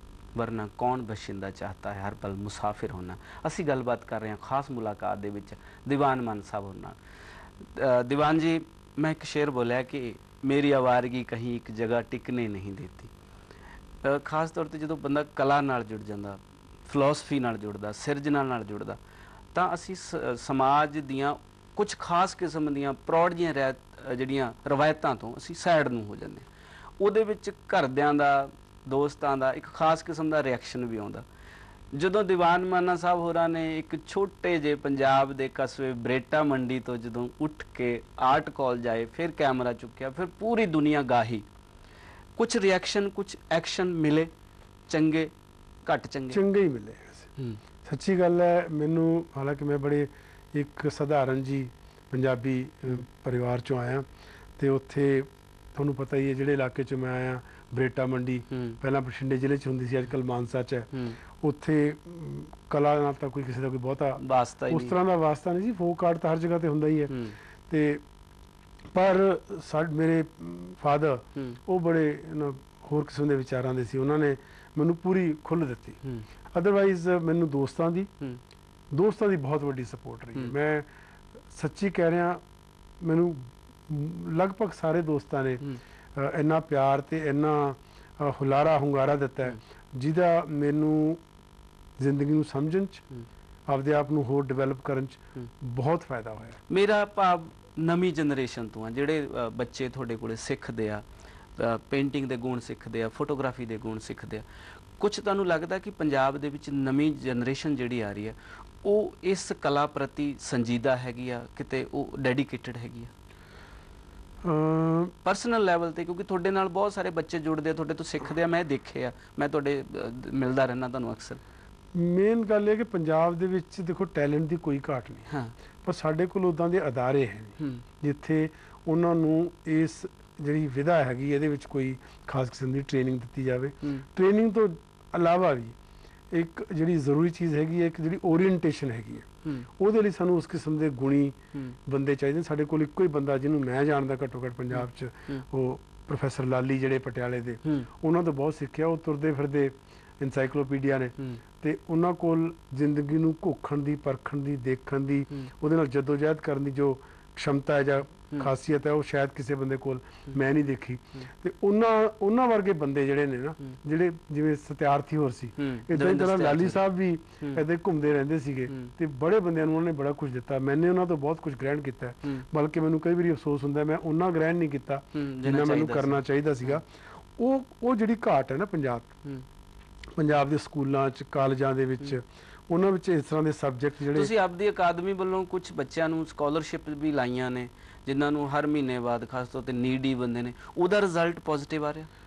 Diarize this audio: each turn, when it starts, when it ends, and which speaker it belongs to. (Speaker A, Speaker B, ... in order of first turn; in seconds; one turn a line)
Speaker A: 0.3-7.0
Speaker A: 7.7-13.1
Speaker A: 14.0-19.0
Speaker A: 19.5-26.5
Speaker A: 27.0-31.2
Speaker A: 31.9-41.5
Speaker A: 42.4-44.3
Speaker A: 44.9-45.3
Speaker A: 45.9-46.4
Speaker B: 46.3-47.3
Speaker B: 47.8-54.0
Speaker B: 54.6-60.9
Speaker A: 58.5-58.8
Speaker A: 60.9-61.2
Speaker B: 61.4-67.1
Speaker A: 64.2-65.0
Speaker A: 67.1-67.3
Speaker B: 67.7-68.0
Speaker B: 68.9-76.0
Speaker B: 76.5-78.1
Speaker B: 78.9-80.8
Speaker B: 81.5-82.4
Speaker B: 83.0-91.2
Speaker B: 92.0-93.0
Speaker B: 93.7-96.6
Speaker A: 96.7-101.0
Speaker A: 101.6-104.4
Speaker A: 105.0-113.1
Speaker B: 114.4-115.1
Speaker A: 115.2-121.4
Speaker B: 121.9-125.3
Speaker A: 125.3-125.5
Speaker B: 125.8-135.7
Speaker B: 136.3-139.3
Speaker B: 139.8-176.8
Speaker A: 144.7-145.4
Speaker A: 165.6-166.8
Speaker A: 175.1-176.8
Speaker B: 177.4-179.1
Speaker B: 180.2-184.3
Speaker A: 184.1-192.1